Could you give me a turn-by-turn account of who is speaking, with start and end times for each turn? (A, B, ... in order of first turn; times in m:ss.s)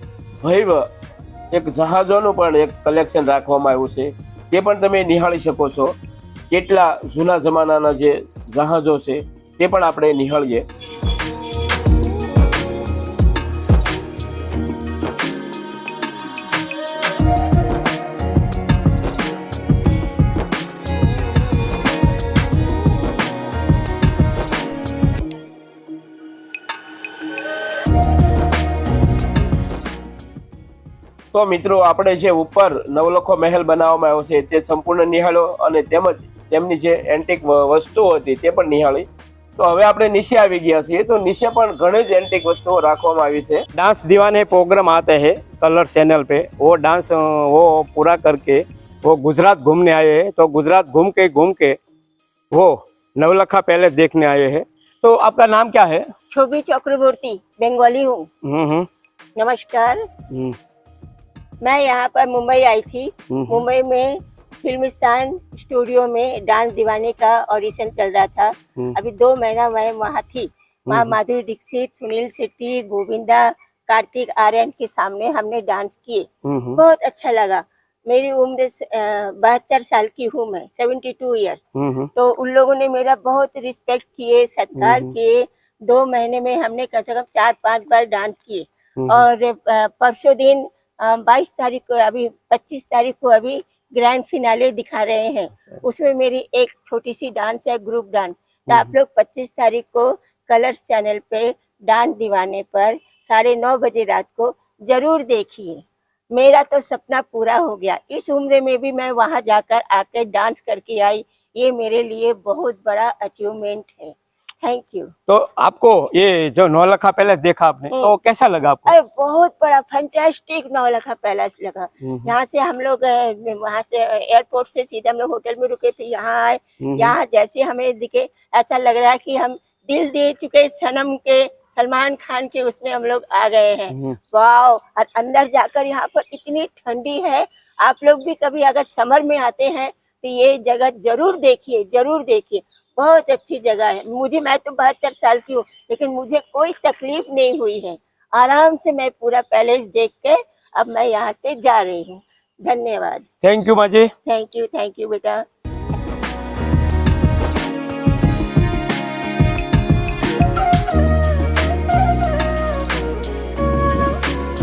0:00.4-0:00.9 A
0:01.5-0:05.9 A
0:06.5-0:10.6 A
0:31.3-0:43.6 A
0:43.7-0:51.8 B
0:52.5-0:56.1 B
0:56.3-0:58.3 C
0:58.4-0:58.9 B
0:59.4-1:00.0 C
1:00.3-1:00.6 B
1:01.6-1:21.6 C
1:03.3-1:03.6 B
1:10.9-1:11.2 B
1:16.4-1:16.8 B
1:21.7-1:22.1 B
1:22.1-1:55.1 C
1:24.8-1:25.1 B
1:29.0-1:29.2 B
1:55.3-1:58.9 B
1:58.9-2:33.3 C
2:02.0-2:02.3 B
2:06.8-2:07.2 B
2:13.9-2:14.2 B
2:33.4-2:34.1 B
2:34.2-2:35.4 C